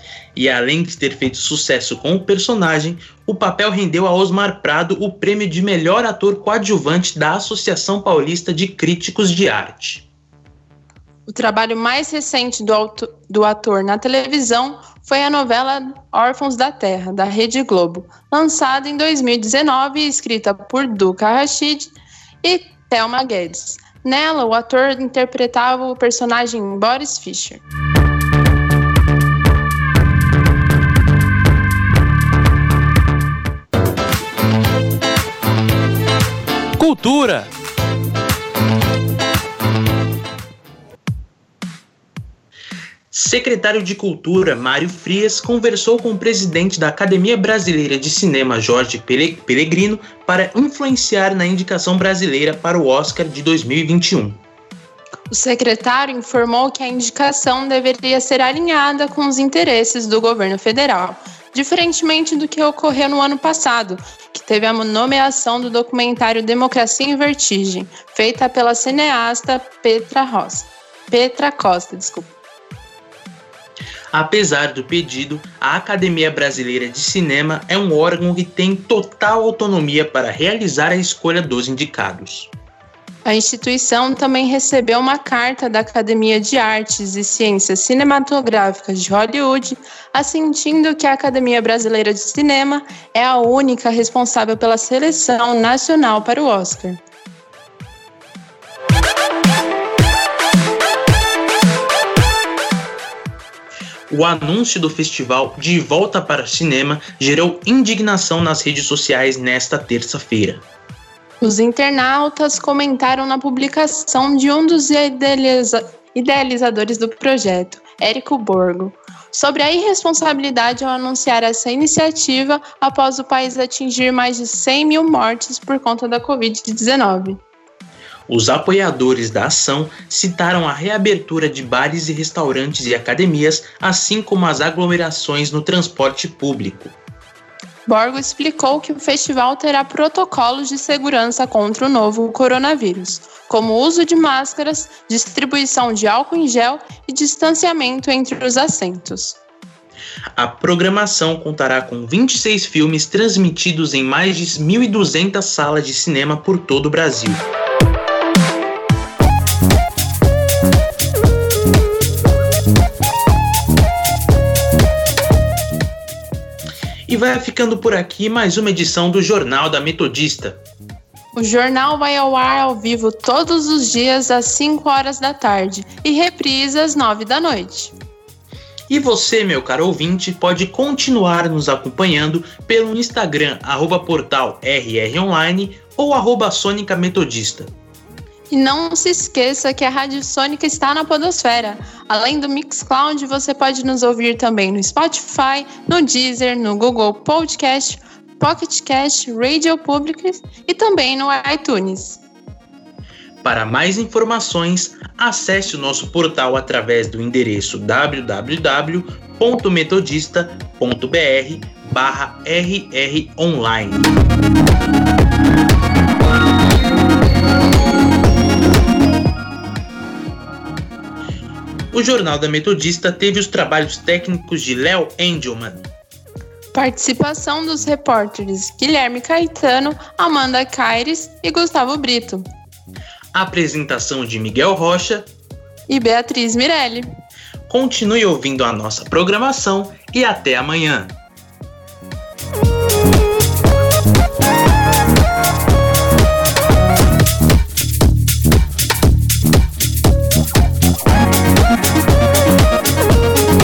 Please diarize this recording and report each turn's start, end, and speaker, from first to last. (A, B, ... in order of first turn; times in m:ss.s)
0:00.3-0:10.0 A
0:11.3-0:21.9 B
0:22.4-0:27.6 B
0:36.8-0:37.5 A
0:43.1-0:54.4 A
0:55.3-1:12.3 B
1:14.1-1:22.5 A
1:23.2-1:37.0 B
1:44.1-1:50.6 A
1:51.4-2:07.4 B
2:08.3-2:16.9 A
2:17.8-2:29.4 B
2:30.4-2:37.4 A
2:47.1-2:50.6 A
2:51.4-2:57.9 B
2:58.9-3:07.7 A
3:08.5-3:22.2 B
3:23.4-3:34.1 A
3:41.9-3:45.9 A
3:46.7-3:52.5 B
3:53.3-3:55.3 A
3:55.9-3:57.1 B
3:57.7-4:01.2 A